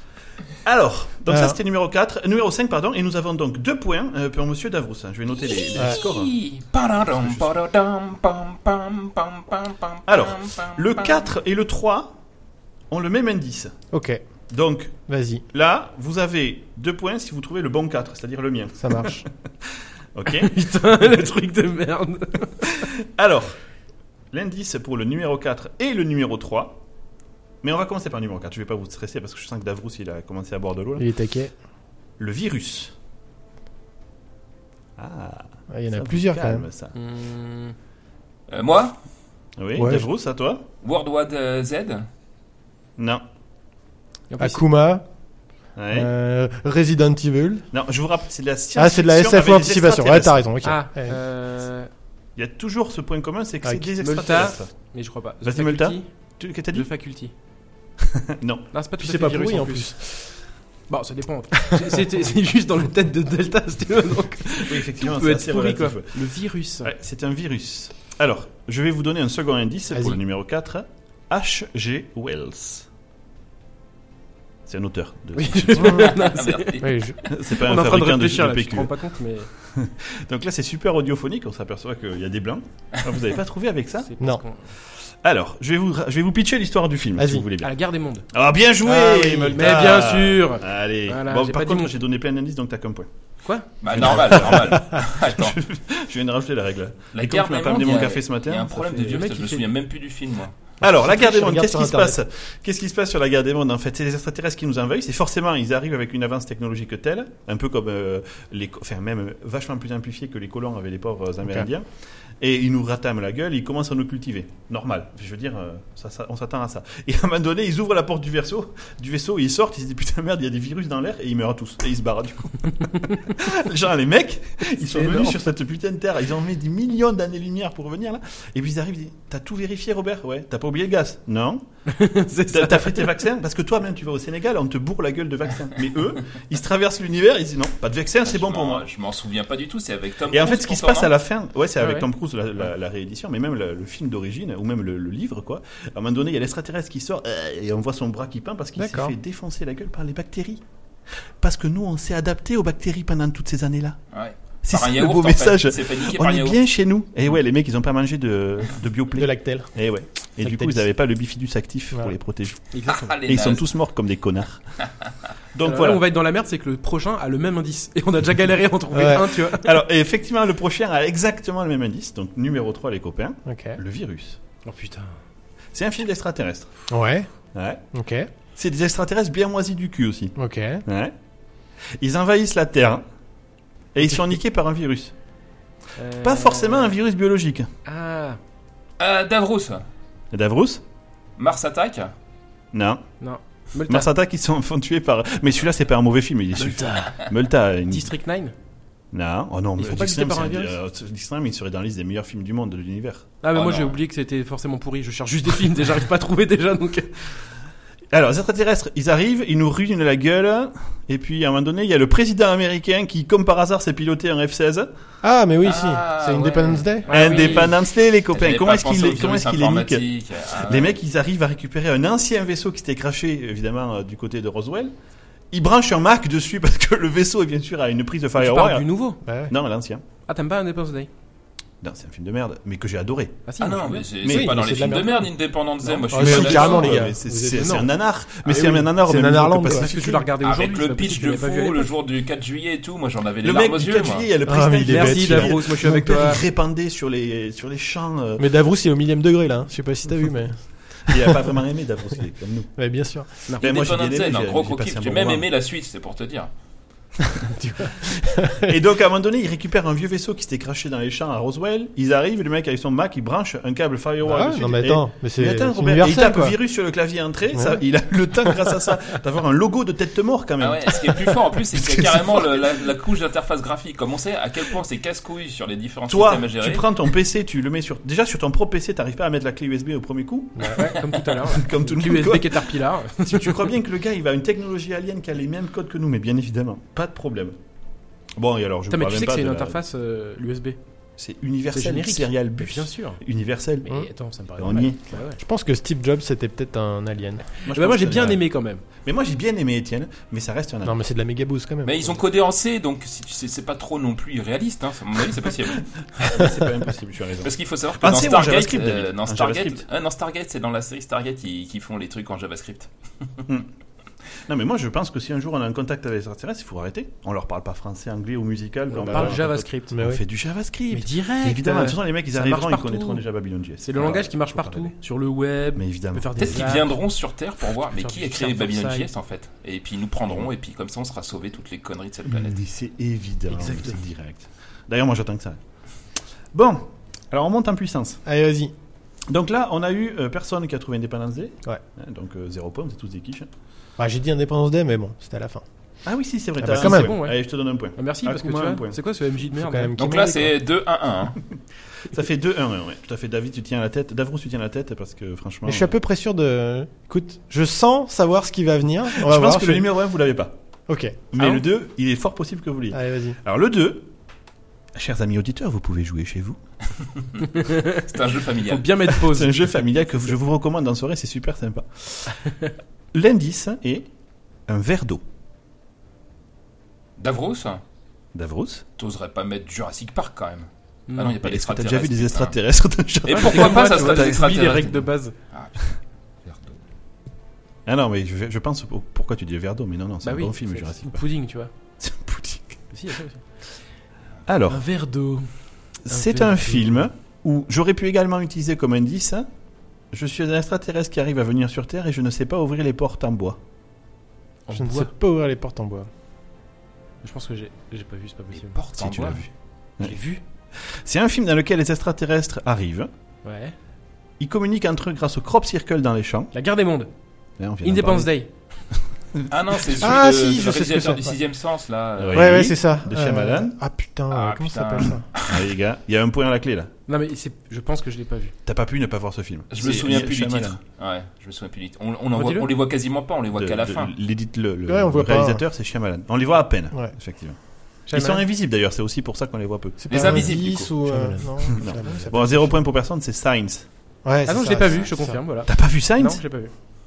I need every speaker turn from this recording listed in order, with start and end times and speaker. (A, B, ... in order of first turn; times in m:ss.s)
0:00.6-0:06.3 A
0:01.3-0:01.6 B
0:05.3-0:11.3 C
0:07.1-0:07.5 A
0:10.1-0:12.2 A
0:12.9-0:13.7 A
0:13.9-0:14.2 B
0:14.5-0:15.0 A
0:15.1-0:15.4 B
0:15.5-0:20.6 A
0:18.8-0:19.2 B
0:20.3-0:22.8 D
0:22.6-0:23.6 A
0:24.3-0:26.8 A
0:27.6-0:31.1 A
0:31.0-0:31.5 B
0:32.2-0:32.9 A
0:35.0-0:36.9 A
0:35.7-0:36.6 B
0:36.9-0:37.7 D
0:38.5-0:39.0 C
0:39.6-0:40.6 A
0:39.8-0:40.0 B
0:40.8-0:42.1 C
0:43.0-0:43.2 A
0:44.3-0:44.6 D
0:44.4-0:45.0 B
0:45.8-0:46.1 A
0:45.9-0:47.6 B
0:47.7-0:50.4 A
0:48.8-0:51.2 B
0:50.6-0:51.9 D
0:52.4-0:54.7 A
0:54.0-0:56.1 D
0:55.4-0:56.9 A
0:56.7-0:57.3 D
0:58.0-0:58.6 A
0:58.7-0:59.9 D
0:59.0-1:00.3 B
1:00.9-1:06.9 D
1:04.5-1:06.3 A
1:06.8-1:12.9 A
1:14.6-1:16.3 A
1:15.3-1:16.8 D
1:16.0-1:17.3 C
1:16.8-1:17.2 B
1:17.2-1:18.9 A
1:17.5-1:19.5 D
1:19.6-1:24.1 A
1:24.0-1:24.7 D
1:24.8-1:27.7 A
1:27.2-1:27.4 B
1:27.6-1:28.3 D
1:28.3-1:33.1 A
1:28.8-1:29.9 B
1:29.5-1:31.9 D
1:33.8-1:35.6 C
1:33.8-1:39.1 A
1:37.1-1:40.5 C
1:39.0-1:39.7 D
1:40.8-1:42.2 B
1:40.8-1:51.9 A
1:52.4-2:11.6 A
2:04.8-2:05.4 D
2:11.9-2:13.1 D
2:12.5-2:18.8 A
2:18.2-2:21.1 C
2:20.3-2:30.6 A
2:21.8-2:22.1 D
2:28.8-2:29.1 B
2:31.4-2:34.0 A
2:34.1-2:36.6 C
2:34.6-2:42.7 A
2:39.2-2:39.7 B
2:40.4-2:40.8 B
2:42.7-2:43.1 D
2:42.8-2:43.6 C
2:43.2-2:44.6 A
2:44.8-2:45.1 C
2:45.5-2:46.0 A
2:45.6-2:49.8 D
2:48.9-2:49.3 B
2:49.5-2:54.4 A
2:53.5-2:53.8 B
2:54.6-2:55.2 D
2:55.7-2:56.7 A
2:56.9-2:57.3 B
2:57.5-2:57.8 A
2:57.9-2:58.3 B
2:58.6-3:01.1 A
3:00.4-3:00.8 B
3:02.0-3:03.0 A
3:03.9-3:05.1 A
3:06.0-3:07.0 D
3:06.2-3:07.7 A
3:07.8-3:08.4 D
3:09.0-3:09.8 C
3:10.3-3:10.8 A
3:11.4-3:12.1 C
3:12.7-3:13.0 A
3:13.2-3:14.1 D
3:13.8-3:18.1 A
3:16.6-3:17.3 D
3:17.9-3:18.5 D
3:19.1-3:23.3 A
3:19.8-3:20.8 D
3:23.4-3:27.2 D
3:23.5-3:24.0 C
3:28.1-3:34.9 A
3:35.2-3:37.1 B
3:35.6-3:37.7 C
3:37.1-3:37.7 D
3:37.1-3:40.0 A
3:38.3-3:41.0 C
3:40.6-3:44.9 A
3:45.5-3:48.9 A
3:48.4-3:49.2 D
3:49.2-3:49.5 B
3:49.5-3:50.0 A
3:50.3-3:51.1 D
3:51.8-3:53.4 A
3:53.5-3:54.1 D
3:53.6-3:57.1 C
3:54.2-3:55.3 B
3:54.2-3:54.5 A
3:55.8-3:56.7 D
3:56.1-3:57.8 B
3:56.1-4:00.2 A
3:57.5-3:57.9 D
3:58.4-4:00.2 B
3:59.6-4:01.9 D
4:00.4-4:04.3 C
4:03.4-4:08.4 A
4:04.4-4:06.1 B
4:04.8-4:06.4 D
4:08.4-4:11.5 B
4:11.1-4:12.7 A
4:12.8-4:13.3 B
4:13.6-4:15.4 A
4:13.6-4:16.5 C
4:17.3-4:18.8 B
4:18.1-4:32.7 A
4:24.3-4:26.5 B
4:30.6-4:36.8 C
4:36.1-4:47.6 A
4:40.6-4:40.9 B
4:40.7-4:43.7 D
4:48.4-4:49.8 A
4:48.9-4:50.8 D
4:51.2-4:53.9 A
4:51.7-4:53.2 D
4:53.8-4:55.4 D
4:54.6-4:55.1 A
4:55.4-4:57.5 B
4:57.6-4:58.4 A
4:57.7-4:58.8 D
4:59.0-5:01.0 A
5:00.8-5:02.2 B
5:01.8-5:05.9 C
5:06.1-5:09.8 A
5:07.4-5:12.9 C
5:14.5-5:25.0 A
5:18.9-5:19.9 D
5:19.1-5:19.4 B
5:19.9-5:20.2 B
5:20.9-5:23.2 D
5:23.8-5:26.9 D
5:25.7-5:26.7 A
5:26.4-5:32.6 C
5:28.0-5:29.1 D
5:32.3-5:35.6 A
5:33.5-5:34.0 D
5:36.5-5:38.2 A
5:38.2-5:38.7 B
5:39.3-5:43.5 A
5:44.0-5:45.6 B
5:46.0-5:49.0 A
5:46.6-5:47.1 B
5:46.7-5:47.4 D
5:48.0-5:49.9 D
5:49.6-5:50.5 B
5:50.0-5:51.4 C
5:52.1-5:56.0 A
5:55.6-5:59.9 B
5:59.1-6:00.5 A
6:00.9-6:01.2 B
6:01.3-6:04.1 A
6:02.9-6:03.4 B
6:04.9-6:06.6 A
6:07.4-6:08.9 C
6:07.5-6:09.7 D
6:09.1-6:12.4 A
6:13.1-6:14.1 A
6:14.7-6:15.2 A
6:17.2-6:17.8 C
6:18.3-6:18.8 A
6:19.0-6:22.6 C
6:21.1-6:21.4 D
6:21.4-6:25.0 A
6:23.2-6:25.0 C
6:23.3-6:25.3 D
6:25.5-6:26.8 C
6:27.8-6:31.2 A
6:30.2-6:31.7 D
6:32.0-6:32.8 A
6:32.9-6:33.4 D
6:34.5-6:34.8 A
6:34.7-6:35.5 D
6:36.0-6:39.5 A
6:36.1-6:37.1 D
6:40.1-6:43.6 A
6:44.6-6:45.1 D
6:44.7-6:46.1 B
6:47.2-6:48.8 D
6:48.5-6:49.4 C
6:49.0-6:49.5 A
6:50.0-6:50.4 D
6:50.8-6:53.1 A
6:53.4-6:53.7 D
6:54.4-6:56.5 A
6:56.5-6:57.1 D
6:57.6-6:58.3 A
6:57.8-6:58.5 D
6:59.3-7:00.0 A
6:59.5-7:02.6 C
7:00.0-7:01.3 B
7:02.2-7:03.8 A
7:02.3-7:05.2 B
7:04.3-7:05.6 C
7:05.4-7:06.9 A
7:07.1-7:08.5 D
7:08.6-7:10.8 A
7:09.7-7:14.1 C
7:12.3-7:12.7 D
7:13.6-7:17.6 A
7:14.9-7:15.6 B
7:18.1-7:18.4 D
7:18.1-7:20.5 A
7:20.0-7:22.7 B
7:20.1-7:20.9 C
7:21.1-7:22.3 D
7:21.6-7:23.9 A
7:24.2-7:25.4 B
7:24.4-7:26.7 D
7:25.7-7:26.4 A